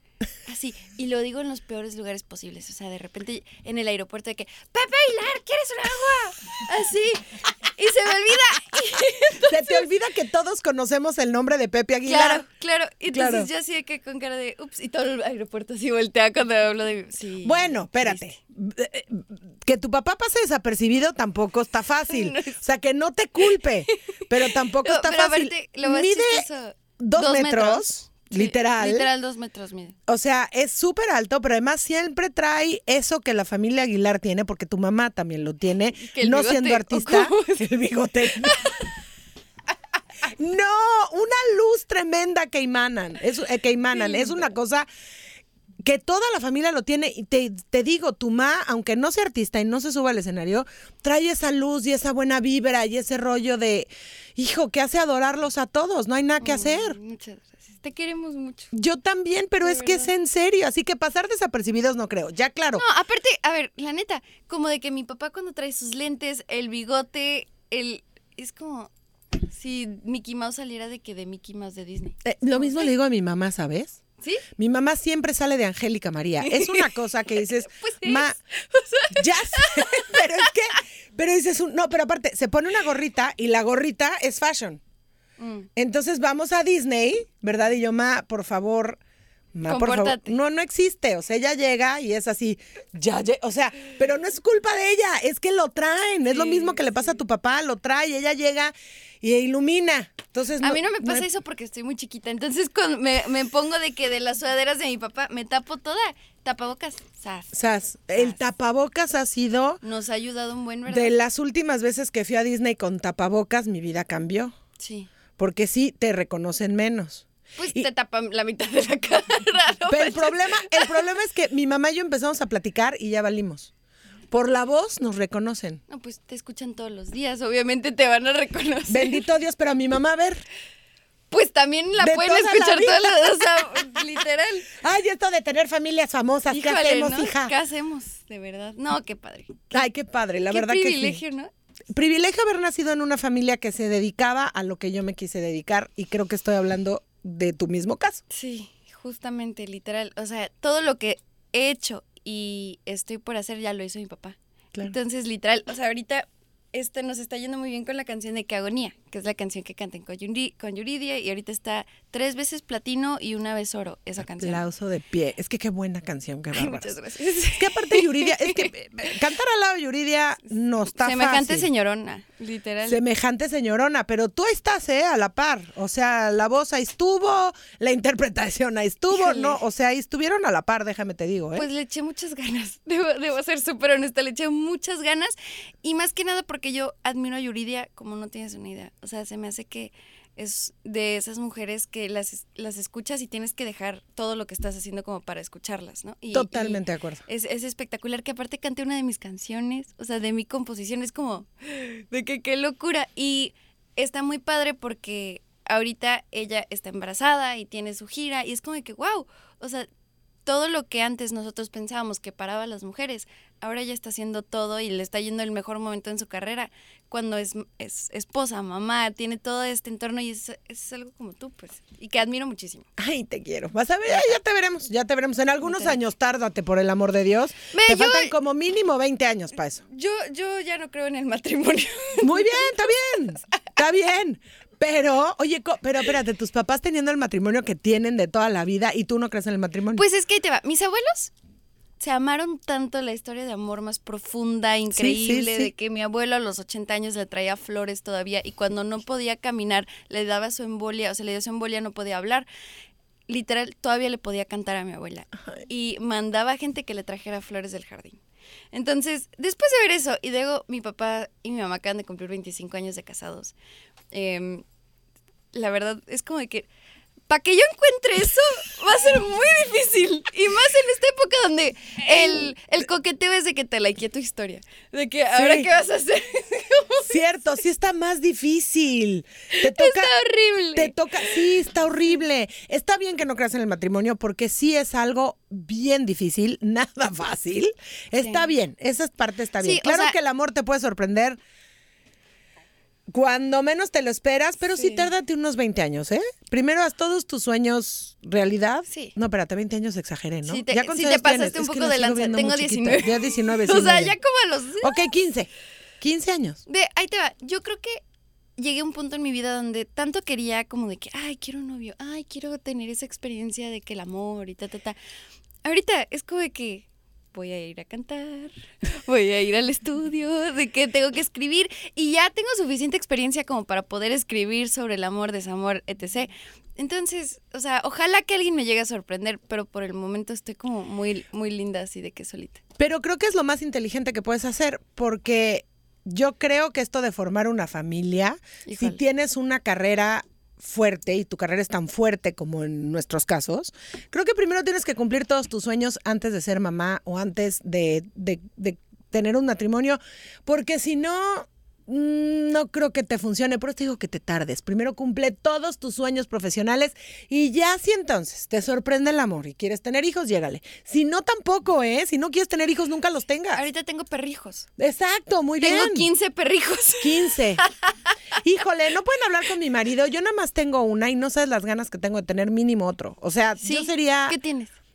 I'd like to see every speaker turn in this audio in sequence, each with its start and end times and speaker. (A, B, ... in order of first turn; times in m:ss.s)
0:00.4-0:09.8 A
0:09.4-0:12.4 B
0:12.0-0:18.4 A
0:13.1-0:13.5 B
0:17.4-0:26.5 B
0:22.1-0:22.6 A
0:23.4-0:23.7 A
0:24.3-0:30.0 A
0:27.0-0:29.1 B
0:30.1-0:38.6 B
0:35.9-0:37.6 A
0:38.4-0:38.7 A
0:40.2-0:44.9 B
0:43.9-0:44.5 A
0:45.8-0:57.0 B
0:56.4-0:58.7 A
0:58.7-1:02.8 B
0:59.6-1:00.1 A
1:02.7-1:08.9 A
1:09.4-1:12.9 A
1:12.2-1:14.0 B
1:14.2-1:14.4 A
1:14.6-1:18.4 B
1:16.4-1:20.5 A
1:19.1-1:24.8 B
1:25.4-1:25.7 A
1:25.8-1:29.0 B
1:29.5-1:41.3 B
1:29.6-1:30.4 A
1:36.2-1:37.1 A
1:40.6-1:47.6 A
1:47.5-1:49.8 B
1:48.1-1:48.4 A
1:49.8-1:51.1 A
1:50.9-1:54.6 B
1:54.8-1:55.1 A
1:55.4-1:57.9 B
1:57.6-2:01.0 A
1:59.9-2:03.7 B
2:04.3-2:05.8 B
2:05.9-2:09.2 A
2:08.9-2:10.4 B
2:11.3-2:14.7 A
2:12.0-2:13.3 B
2:14.7-2:17.5 B
2:16.5-2:19.8 A
2:19.7-2:21.2 B
2:20.5-2:21.5 A
2:21.9-2:28.2 B
2:28.3-2:44.6 A
2:44.4-2:46.9 B
2:46.5-2:48.7 A
2:47.5-2:51.7 B
2:51.0-2:53.0 A
2:52.8-3:01.7 B
2:59.1-2:59.6 A
3:01.5-3:29.9 A
3:16.3-3:17.2 B
3:30.4-3:42.9 A
3:43.0-3:49.8 B
3:45.6-3:46.0 A
3:47.7-3:48.3 A
3:49.9-3:53.5 A
3:52.2-4:00.0 B
3:59.9-4:01.3 A
4:02.0-4:12.5 A
4:04.9-4:05.7 B
4:13.3-4:18.2 A
4:18.7-4:23.5 A
4:24.1-4:24.6 A
4:25.5-4:26.7 A
4:27.3-4:37.2 A
4:35.3-4:35.7 B
4:37.0-4:40.1 B
4:39.5-4:41.6 A
4:40.7-4:51.4 B
4:48.2-4:48.4 A
4:49.6-4:50.2 A
4:53.1-5:04.2 B
4:54.7-4:55.1 A
4:58.9-4:59.1 A
5:00.4-5:05.1 A
5:04.8-5:06.6 B
5:06.6-5:08.0 A
5:08.6-5:15.0 A
5:15.6-5:32.6 A
5:32.8-6:03.6 B
5:38.6-5:39.0 A
6:03.5-6:04.7 A
6:04.8-6:06.1 B
6:05.6-6:08.1 A
6:07.0-6:07.6 B
6:08.4-6:14.4 B
6:13.6-6:14.7 A